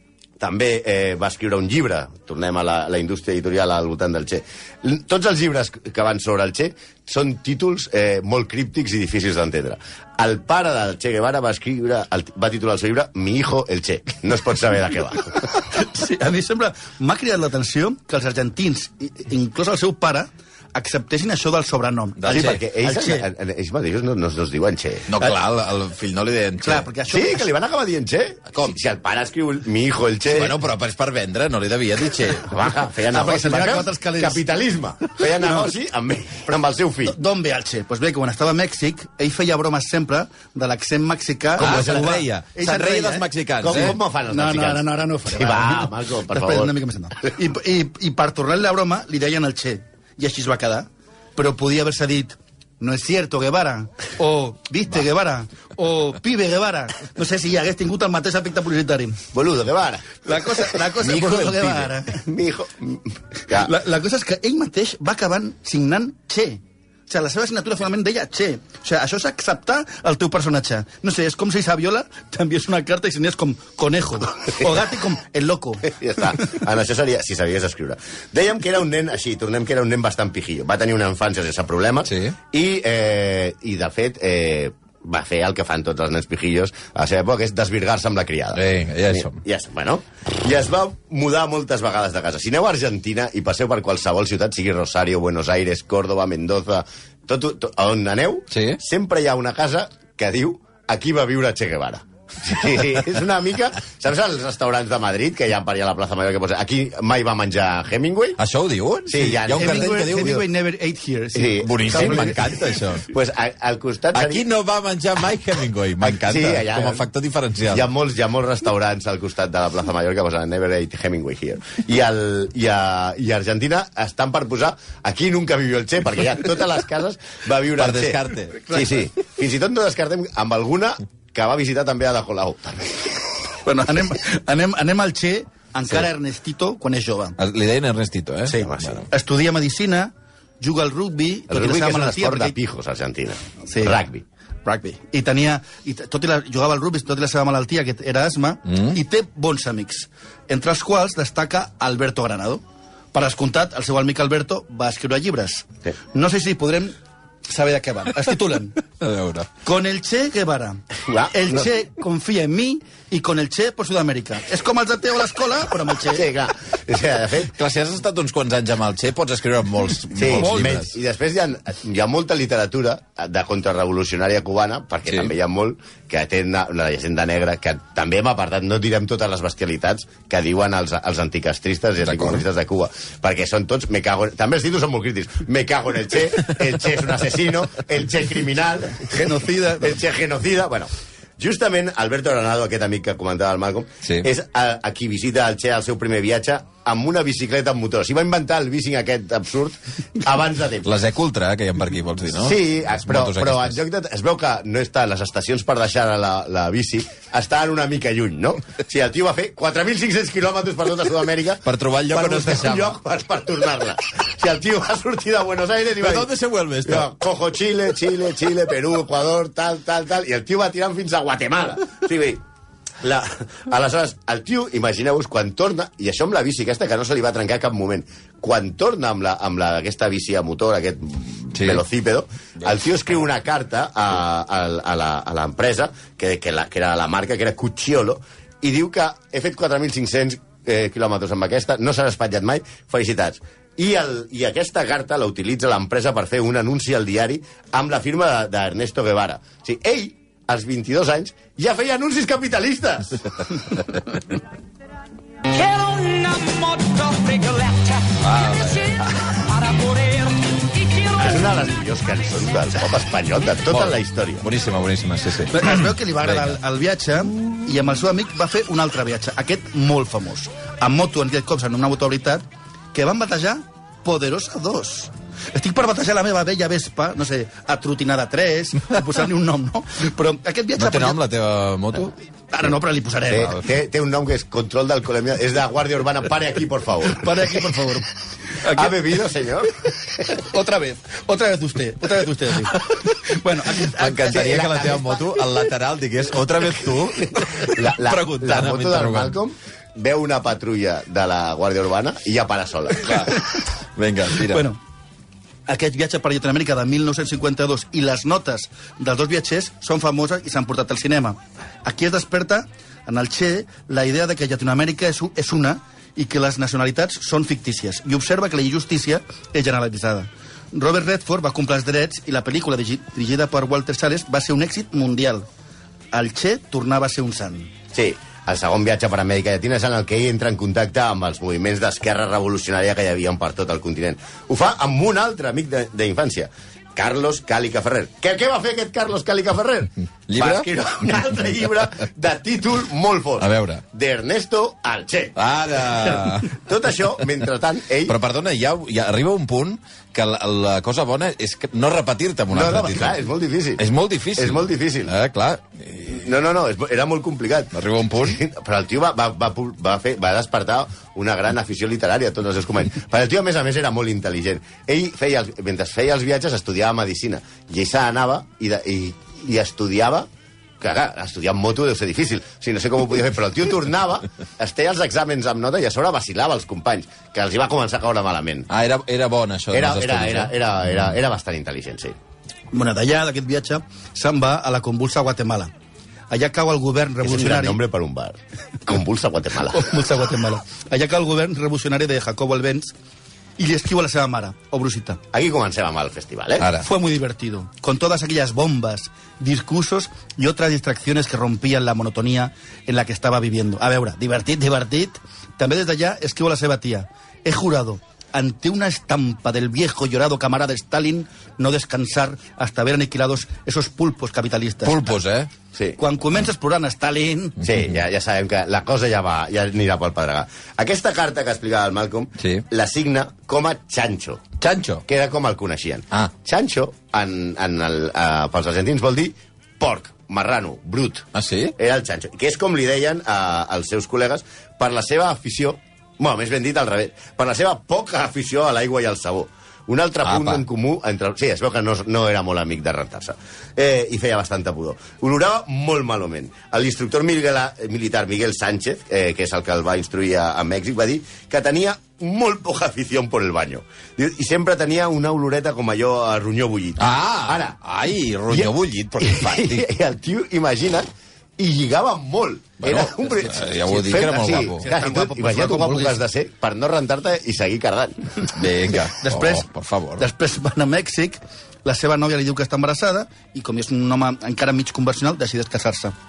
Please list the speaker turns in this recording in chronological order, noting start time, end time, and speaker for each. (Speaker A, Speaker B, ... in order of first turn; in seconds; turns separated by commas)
Speaker A: 0.4-15.6, Speaker B: 15.7-23.3, Speaker C: 22.2-22.6, Speaker A: 22.3-25.1, Speaker C: 25.1-26.9, Speaker B: 26.6-27.5, Speaker A: 27.1-30.6, Speaker C: 30.3-32.5, Speaker A: 32.4-37.2, Speaker B: 33.1-34.4, Speaker B: 35.2-35.7, Speaker B: 37.1-59.2, Speaker A: 41.6-42.2, Speaker C: 41.6-44.0, Speaker A: 43.6-46.7, Speaker A: 59.3-60.2, Speaker B: 60.2-62.3, Speaker A: 61.1-63.7, Speaker B: 63.5-76.0, Speaker A: 75.9-108.4, Speaker C: 82.1-82.3, Speaker C: 88.5-89.4, Speaker C: 98.5-98.8, Speaker C: 108.4-110.4, Speaker A: 109.1-110.2, Speaker B: 109.5-112.4, Speaker A: 111.3-112.5, Speaker C: 111.6-113.1, Speaker A: 113.1-114.4, Speaker C: 114.1-117.9, Speaker A: 116.0-117.0, Speaker A: 117.7-133.2, Speaker C: 127.8-128.6, Speaker B: 133.6-137.4, Speaker C: 137.4-139.0, Speaker B: 138.5-142.6, Speaker A: 138.6-139.1, Speaker A: 141.5-144.2, Speaker B: 143.7-144.0, Speaker B: 144.6-156.9, Speaker B: 157.5-158.8, Speaker C: 159.0-159.5, Speaker B: 159.6-166.3, Speaker A: 161.1-161.7, Speaker A: 166.1-167.5, Speaker C: 167.5-170.9, Speaker A: 170.1-189.2, Speaker B: 170.3-170.7, Speaker C: 182.1-182.4, Speaker B: 189.1-190.0, Speaker A: 189.8-200.9, Speaker C: 200.8-203.8, Speaker A: 202.3-216.3, Speaker C: 211.6-212.9, Speaker C: 216.0-217.1, Speaker A: 216.8-222.4, Speaker A: 223.0-253.5, Speaker C: 231.6-231.8, Speaker D: 255.5-261.7, Speaker C: 258.2-259.0, Speaker A: 261.2-264.5, Speaker C: 263.7-266.5, Speaker B: 265.5-281.2, Speaker C: 280.8-282.1, Speaker B: 282.5-283.6, Speaker A: 283.3-287.6, Speaker B: 287.0-288.9, Speaker A: 288.6-290.3, Speaker B: 290.3-294.7, Speaker C: 293.8-299.4, Speaker A: 294.3-295.1, Speaker A: 297.6-303.3, Speaker C: 303.0-303.4, Speaker C: 304.0-304.6, Speaker B: 304.4-304.8, Speaker B: 305.7-325.5, Speaker B: 326.1-327.7, Speaker A: 327.9-348.1, Speaker C: 340.3-340.7, Speaker C: 343.4-343.8, Speaker C: 345.4-346.6, Speaker C: 348.1-353.2, Speaker A: 352.5-353.8, Speaker C: 353.8-356.1, Speaker A: 354.4-355.1, Speaker A: 356.1-370.3, Speaker C: 357.7-358.4, Speaker A: 370.8-378.7, Speaker C: 378.7-380.5, Speaker A: 379.7-382.1, Speaker B: 382.7-385.7, Speaker B: 386.3-387.8, Speaker A: 387.2-389.9, Speaker B: 389.7-392.9, Speaker B: 393.6-395.2, Speaker A: 395.3-396.6, Speaker C: 396.6-396.9, Speaker B: 396.8-415.2, Speaker C: 414.9-415.5, Speaker B: 416.0-417.6, Speaker A: 417.6-424.5, Speaker C: 422.4-422.6, Speaker C: 424.6-425.0, Speaker A: 425.1-431.2, Speaker C: 431.4-431.7, Speaker A: 431.8-457.8, Speaker C: 440.2-440.6, Speaker C: 457.0-459.9, Speaker A: 458.5-468.3, Speaker C: 462.8-464.9, Speaker B: 464.8-466.2, Speaker C: 468.5-470.2, Speaker B: 469.2-469.7, Speaker B: 470.2-476.1